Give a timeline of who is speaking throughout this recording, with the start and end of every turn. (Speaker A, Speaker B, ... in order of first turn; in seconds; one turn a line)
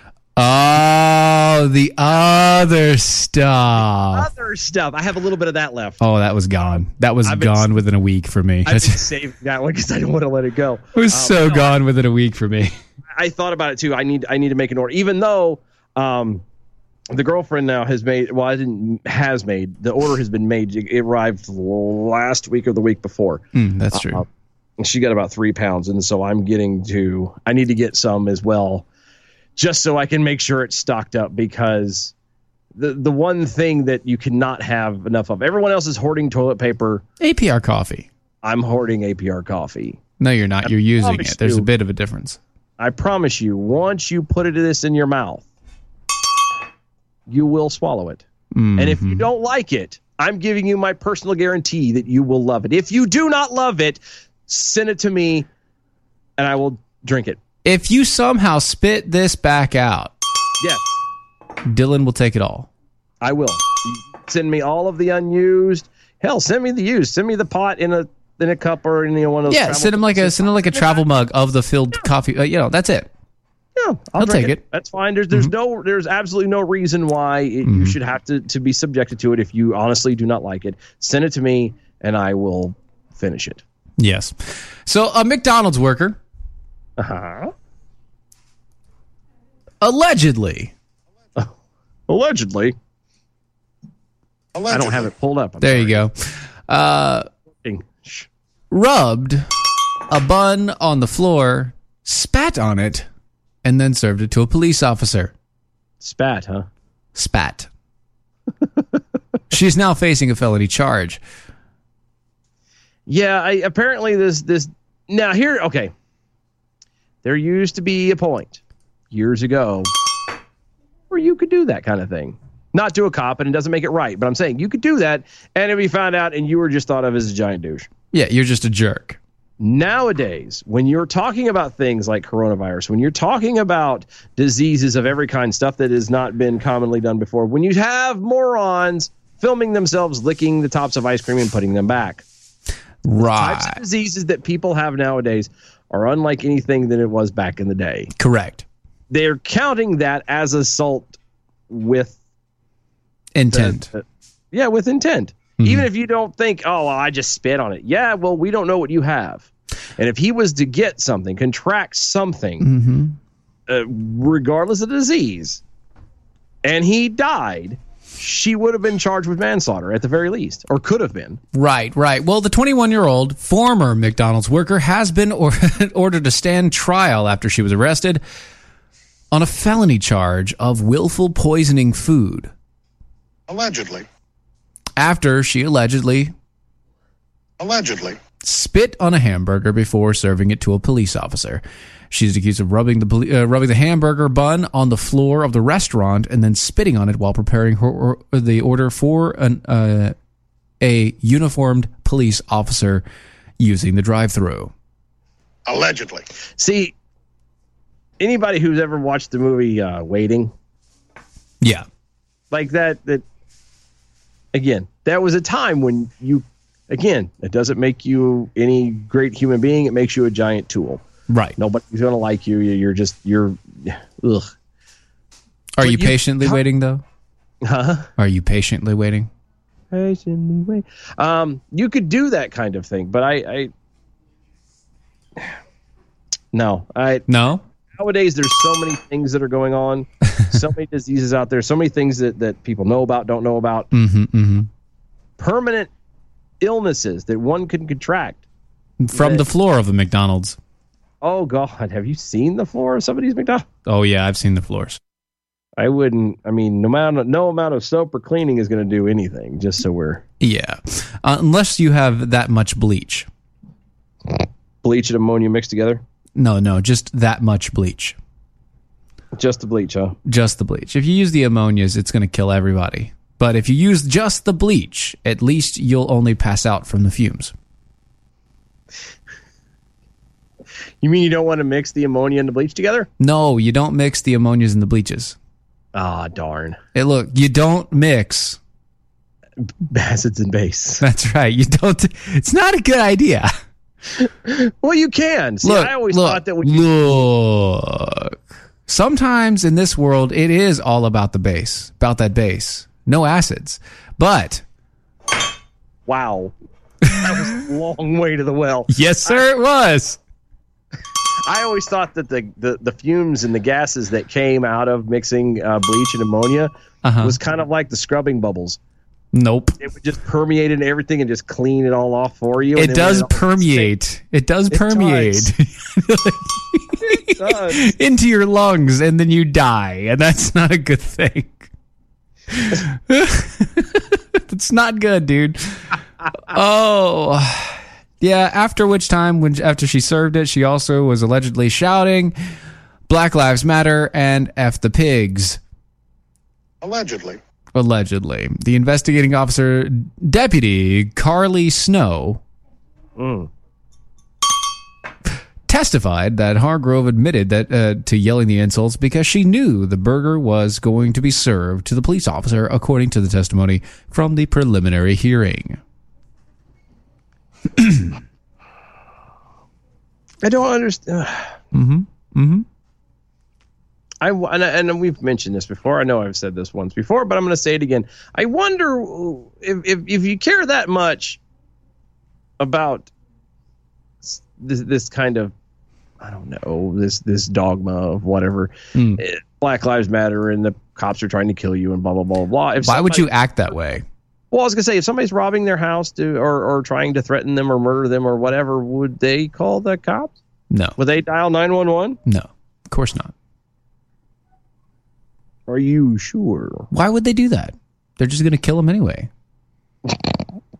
Speaker A: 0.3-4.3
Speaker B: 4.1-6.0
Speaker A: 6.0-9.0
Speaker B: 7.2-7.7
Speaker B: 8.6-11.8
Speaker A: 10.9-12.7
Speaker B: 13.1-16.4
Speaker B: 17.1-24.2
Speaker A: 23.5-24.2
Speaker B: 24.8-28.9
Speaker B: 29.6-32.1
Speaker B: 32.7-37.0
Speaker A: 37.2-38.1
Speaker B: 38.4-40.0
Speaker A: 40.2-42.4
Speaker B: 40.6-41.7
Speaker B: 42.8-45.5
Speaker B: 47.3-48.2
Speaker A: 48.5-49.3
Speaker B: 48.8-55.5
Speaker B: 56.4-57.4
Speaker A: 57.6-60.1
Speaker B: 60.6-60.9
Speaker A: 61.6-62.7
Speaker B: 63.2-71.0
Speaker A: 69.5-73.1
Speaker B: 73.8-83.6
Speaker A: 74.2-74.6
Speaker A: 77.6-78.0
Speaker A: 84.0-86.2
Speaker B: 87.0-87.5
Speaker A: 89.8-90.7
Speaker B: 92.1-92.7
Speaker C: 94.5-95.1
Speaker B: 94.7-96.1
Speaker A: 95.6-97.3
Speaker B: 97.6-98.3
Speaker A: 98.7-99.5
Speaker A: 100.1-103.1
Speaker A: 103.6-105.3
Speaker B: 106.0-106.7
Speaker A: 107.1-107.7
Speaker A: 109.5-111.2
Speaker B: 113.1-115.9
Speaker B: 117.2-118.6
Speaker B: 119.1-119.9
Speaker B: 121.1-127.9
Speaker A: 128.1-129.2
Speaker B: 129.6-142.2
Speaker A: 143.0-143.8
Speaker B: 143.2-148.1
Speaker A: 148.2-148.6
Speaker B: 149.1-151.2
Speaker B: 151.7-152.2
Speaker A: 153.3-153.9
Speaker B: 153.5-162.7
Speaker A: 155.6-155.9
Speaker A: 162.6-163.2
Speaker B: 163.7-165.6
Speaker B: 166.6-171.4
Speaker A: 171.5-178.2
Speaker A: 179.3-182.5
Speaker C: 183.5-184.1
Speaker A: 185.0-186.3
Speaker C: 187.6-188.2
Speaker A: 188.4-200.1
Speaker A: 200.8-203.0
Speaker A: 203.6-204.7
Speaker C: 205.7-206.3
Speaker B: 206.6-206.9
Speaker B: 208.2-210.5
Speaker A: 211.6-211.8
Speaker B: 212.5-213.2
Speaker B: 214.5-221.0
Speaker A: 221.3-221.6
Speaker B: 221.6-224.5
Speaker A: 225.8-227.0
Speaker B: 225.8-226.6
Speaker B: 227.6-228.1
Speaker A: 228.2-229.3
Speaker B: 229.9-233.7
Speaker B: 236.5-237.2
Speaker A: 237.3-237.6
Speaker B: 238.0-243.9
Speaker A: 243.9-244.7
Speaker B: 245.4-245.9
Speaker B: 246.6-248.4
Speaker A: 249.0-250.6
Speaker B: 249.1-249.4
Speaker B: 251.2-253.7
Speaker A: 253.8-255.0
Speaker B: 255.8-260.2
Speaker A: 260.4-263.3
Speaker B: 264.8-266.0
Speaker A: 266.4-268.2
Speaker B: 269.3-270.2
Speaker A: 270.2-277.5
Speaker B: 281.0-283.1
Speaker A: 283.2-285.4
Speaker B: 285.9-286.8
Speaker A: 286.9-288.6
Speaker B: 289.6-291.0
Speaker A: 291.0-293.5
Speaker B: 294.2-297.2
Speaker A: 295.6-304.6
Speaker B: 306.1-306.5
Speaker B: 307.1-309.4
Speaker A: 308.9-310.2
Speaker B: 311.4-316.7
Speaker A: 317.0-317.4
Speaker B: 317.2-318.8
Speaker A: 319.3-319.8
Speaker B: 319.8-323.9
Speaker A: 322.8-331.7
Speaker B: 324.7-325.5
Speaker B: 327.1-327.9
Speaker A: 332.5-342.3
Speaker A: 343.1-345.6
Speaker C: 346.8-347.4
Speaker A: 347.7-352.4
Speaker B: 353.2-353.5
Speaker A: 355.7-365.8
Speaker A: 367.8-368.1
Speaker B: 370.4-371.6
Speaker A: 371.7-372.6
Speaker B: 374.2-381.4
Speaker B: 382.6-383.1
Speaker B: 384.2-385.5
Speaker B: 386.2-393.3
Speaker A: 388.9-389.2
Speaker A: 392.8-394.0
Speaker B: 394.5-400.4
Speaker A: 400.7-400.9
Speaker B: 401.0-402.2
Speaker A: 402.2-403.3
Speaker B: 405.7-406.9
Speaker A: 406.9-409.3
Speaker B: 410.1-410.4